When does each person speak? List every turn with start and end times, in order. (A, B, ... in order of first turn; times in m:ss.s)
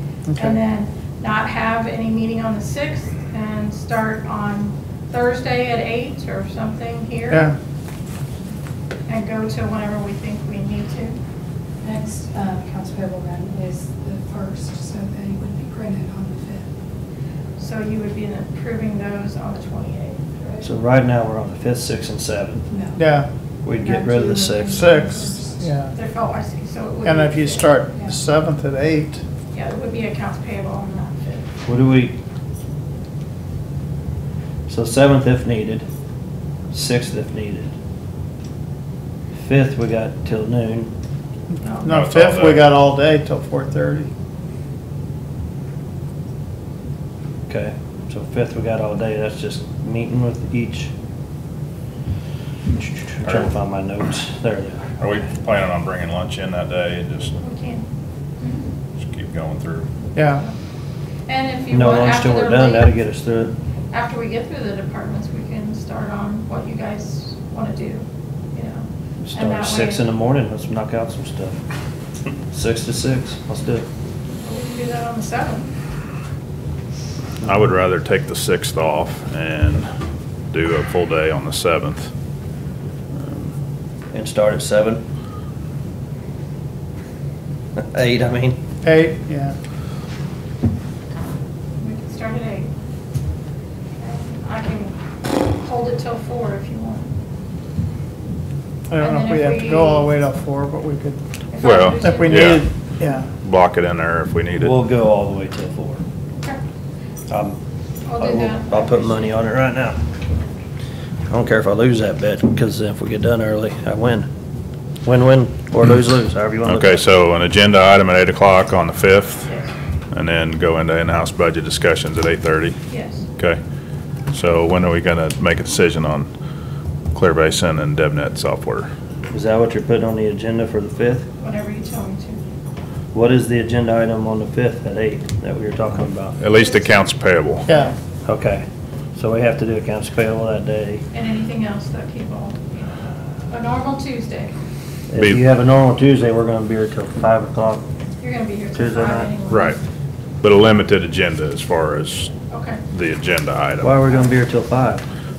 0:00.3-0:00.6 A
0:00.4-0:07.5 B
0:07.3-0:07.6 A
0:09.1-0:11.2 B
0:11.8-0:16.7 C
0:17.6-0:20.2 B
0:20.6-0:22.6 D
0:22.7-0:23.0 C
0:23.0-0:23.3 A
0:23.6-0:24.9 D
0:23.8-0:25.6 C
0:24.7-0:25.9 A
0:25.9-0:27.8 B
0:27.0-0:29.2 A
0:29.5-0:31.4 B
0:31.6-0:32.2 D
0:34.7-0:35.9 D
0:36.7-0:37.7 D
0:39.4-0:40.9 D
0:41.5-0:44.1 A
0:41.6-0:42.0 B
0:41.8-0:42.7 E
0:47.5-0:50.9 D
0:52.7-0:55.0 D
0:53.2-0:53.5 E
0:55.0-0:57.4 E
0:57.4-0:57.8 B
0:58.4-0:58.7 B
0:59.0-0:59.9 E
1:00.2-1:00.4 A
1:01.3-1:02.9 B
1:01.7-1:03.6 D
1:03.9-1:10.0 B
1:09.2-1:11.6 D
1:12.5-1:13.9 D
1:14.4-1:15.7 B
1:17.4-1:19.9 E
1:20.5-1:22.1 E
1:23.2-1:23.5 E
1:24.1-1:25.0 D
1:27.8-1:28.6 D
1:28.8-1:29.6 A
1:31.8-1:32.7 B
1:34.0-1:37.1 B
1:38.9-1:41.2 A
1:39.0-1:40.1 B
1:41.5-1:42.6 B
1:41.6-1:42.7 E
1:41.9-1:43.3 A
1:43.4-1:44.8 E
1:44.6-1:46.0 D
1:47.3-1:47.6 D
1:48.1-1:49.4 B
1:48.2-1:50.0 D
1:51.3-1:54.3 D
1:55.0-1:57.1 D
1:56.6-1:59.5 E
1:59.5-1:59.7 B
2:00.1-2:02.8 E
2:02.9-2:03.2 B
2:04.3-2:06.3 E
2:07.1-2:08.9 E
2:09.3-2:11.3 D
2:11.4-2:12.4 B
2:13.1-2:16.4 D
2:16.4-2:17.7 E
2:17.7-2:17.9 A
2:17.7-2:18.0 B
2:18.2-2:18.6 D
2:19.2-2:21.0 D
2:21.1-2:24.5 B
2:25.1-2:27.8 D
2:25.2-2:25.4 E
2:28.2-2:29.8 B
2:28.7-2:29.3 D
2:29.5-2:29.8 E
2:30.4-2:32.3 E
2:32.5-2:32.8 B
2:32.9-2:34.0 E
2:33.8-2:35.0 D